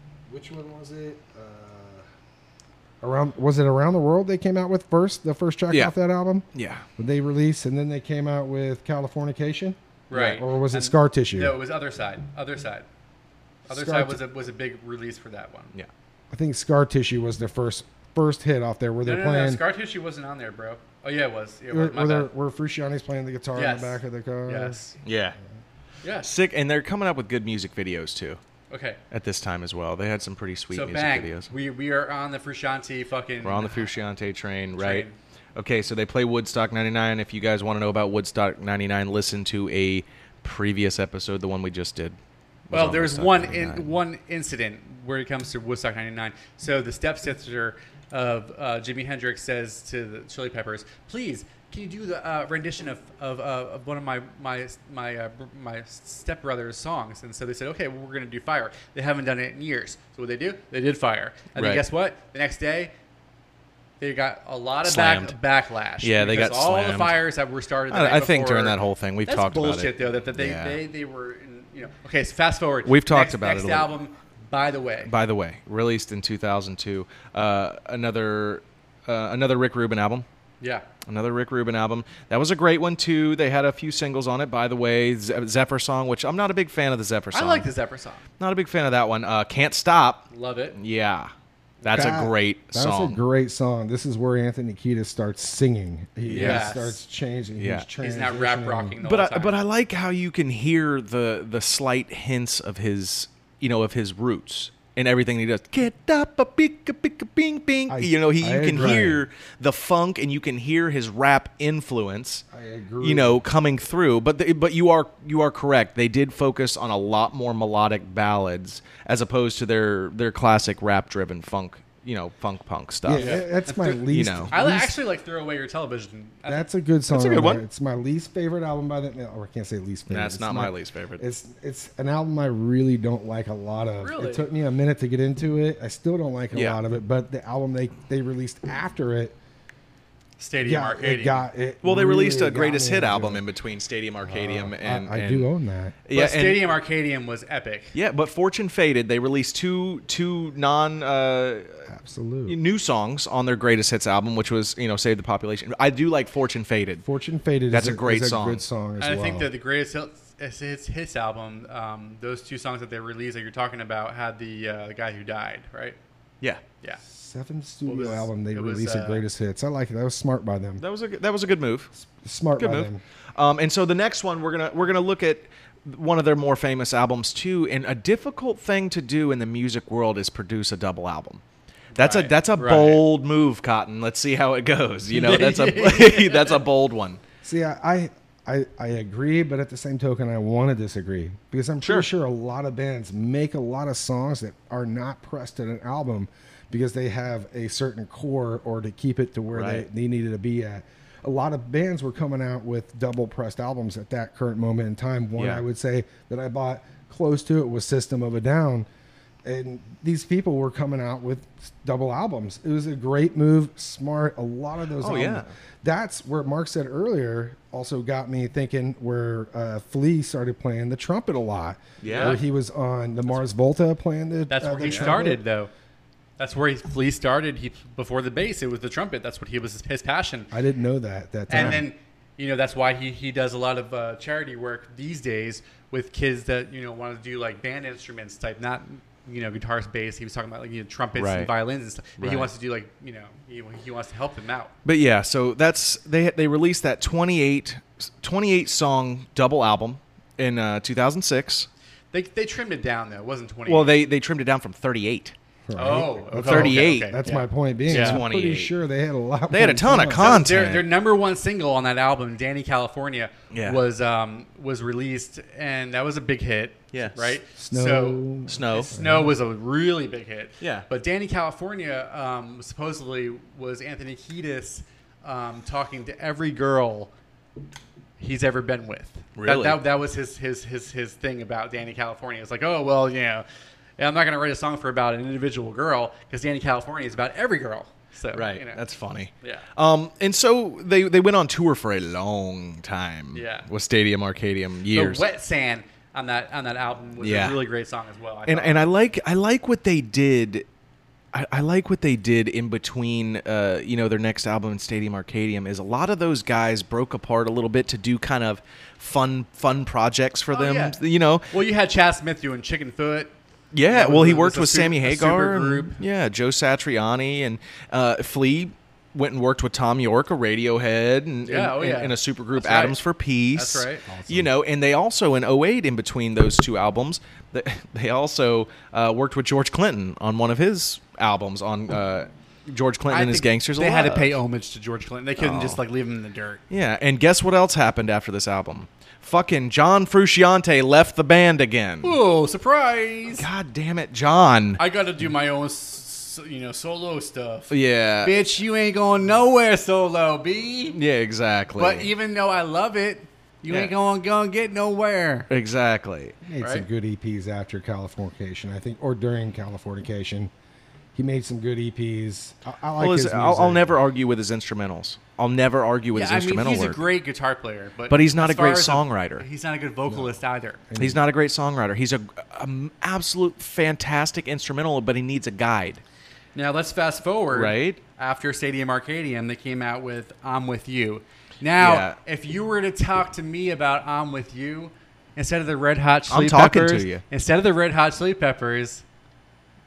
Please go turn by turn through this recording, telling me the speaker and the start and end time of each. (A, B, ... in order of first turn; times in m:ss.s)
0:00.3-0:02.0 A
0:03.0-0:06.4 A
0:06.5-0:06.8 B
0:07.0-0:09.8 A
0:10.1-0:12.9 C
0:10.1-0:10.4 B
0:10.4-0:11.6 A
0:13.7-0:14.2 A
0:13.7-0:15.7 C
0:16.3-0:19.6 A
0:19.0-0:22.3 C
0:21.7-0:24.8 A
0:23.6-0:25.0 C
0:25.0-0:25.4 B
0:26.0-0:26.3 C
0:26.2-0:28.4 B
0:28.7-0:29.0 C
0:29.1-0:31.5 B
0:30.7-0:33.9 C
0:33.4-0:42.2 B
0:34.8-0:35.2 C
0:42.7-0:43.9 B
0:42.7-1:02.9 C
1:01.6-1:01.8 B
1:04.0-1:15.1 C
1:04.8-1:05.4 B
1:06.0-1:07.2 B
1:07.9-1:10.8 B
1:12.8-1:13.9 B
1:15.1-1:20.2 B
1:20.6-1:20.9 C
1:21.1-1:27.7 B
1:27.3-1:28.2 C
1:28.4-1:31.3 B
1:30.3-1:30.8 C
1:31.8-1:32.2 C
1:31.8-1:33.2 B
1:31.9-1:39.0 A
1:36.3-1:36.7 B
1:36.3-1:37.0 C
1:37.6-1:37.9 B
1:38.0-1:39.6 C
1:39.0-1:52.4 B
1:47.9-1:49.2 A
1:52.5-1:53.4 A
1:53.0-2:03.5 B
2:03.0-2:05.0 A
2:03.2-2:06.7 C
2:04.1-2:04.5 B
2:06.5-2:19.4 A
2:07.1-2:07.6 B
2:10.1-2:11.2 B
2:14.0-2:14.5 C
2:16.5-2:16.8 B
2:20.4-2:21.5 C
2:20.6-2:23.4 A
2:21.8-2:25.5 B
2:24.3-2:26.0 A
2:26.0-2:26.6 B
2:26.1-2:28.0 C
2:28.0-2:31.8 B
2:31.9-2:32.6 A
2:32.5-2:37.0 B
2:37.0-2:39.5 A
2:37.7-2:38.6 B
2:39.0-2:46.0 C
2:47.0-2:50.8 A
2:47.9-2:49.2 C
2:50.8-2:51.9 B
2:52.0-2:53.0 A
2:52.6-3:01.4 B
3:02.0-3:03.0 C
3:02.0-3:07.2 B
3:05.1-3:06.6 C
3:07.4-3:28.9 A
3:11.8-3:12.1 B
3:19.5-3:19.8 B
3:25.4-3:25.6 B
3:29.4-3:45.4 A
3:35.0-3:35.5 B
3:42.0-3:42.4 B
3:42.0-3:42.4 C
3:44.5-3:45.7 C
3:44.8-3:45.1 B
3:46.4-3:50.5 C
3:50.5-3:51.8 A
3:51.5-4:04.7 C
3:51.5-3:51.8 B
4:01.2-4:01.5 B
4:02.2-4:02.5 B
4:04.8-4:11.7 B
4:12.1-4:13.9 C
4:13.7-4:15.4 B
4:15.7-4:20.4 A
4:15.8-4:18.2 C
4:16.4-4:17.1 B
4:17.9-4:18.7 B
4:19.5-4:20.9 B
4:20.1-4:37.1 C
4:23.5-4:23.8 B
4:26.9-4:27.4 B
4:27.6-4:29.4 A
4:28.5-4:28.9 B
4:30.6-4:30.9 B
4:38.2-4:43.4 C
4:39.4-4:39.8 B
4:44.0-4:48.8 C
4:48.3-4:55.2 B
4:53.3-4:53.7 C
4:54.9-4:58.8 C
4:57.2-4:57.6 B
4:58.5-5:00.7 B
5:01.3-5:11.5 B
5:10.5-5:13.4 C
5:13.7-5:34.4 B
5:13.9-5:16.0 C
5:21.4-5:23.0 C
5:23.5-5:24.0 C
5:24.1-5:24.5 A
5:33.1-5:36.6 C
5:35.4-5:35.8 B
5:36.7-5:42.2 B
5:42.0-5:43.5 C
5:43.4-5:44.8 B
5:44.8-5:51.0 C
5:47.7-5:48.4 B
5:50.9-5:52.1 B
5:51.8-5:55.5 C
5:55.5-5:56.4 B
5:56.5-6:00.5 A
5:56.6-5:56.9 C
6:01.2-6:04.0 A
6:03.0-6:07.0 B
6:06.1-6:10.8 C
6:08.1-6:09.5 B
6:10.9-6:11.2 A
6:11.0-6:16.0 B
6:16.6-6:29.0 C
6:17.5-6:18.0 B
6:21.8-6:22.2 B
6:26.3-6:27.2 B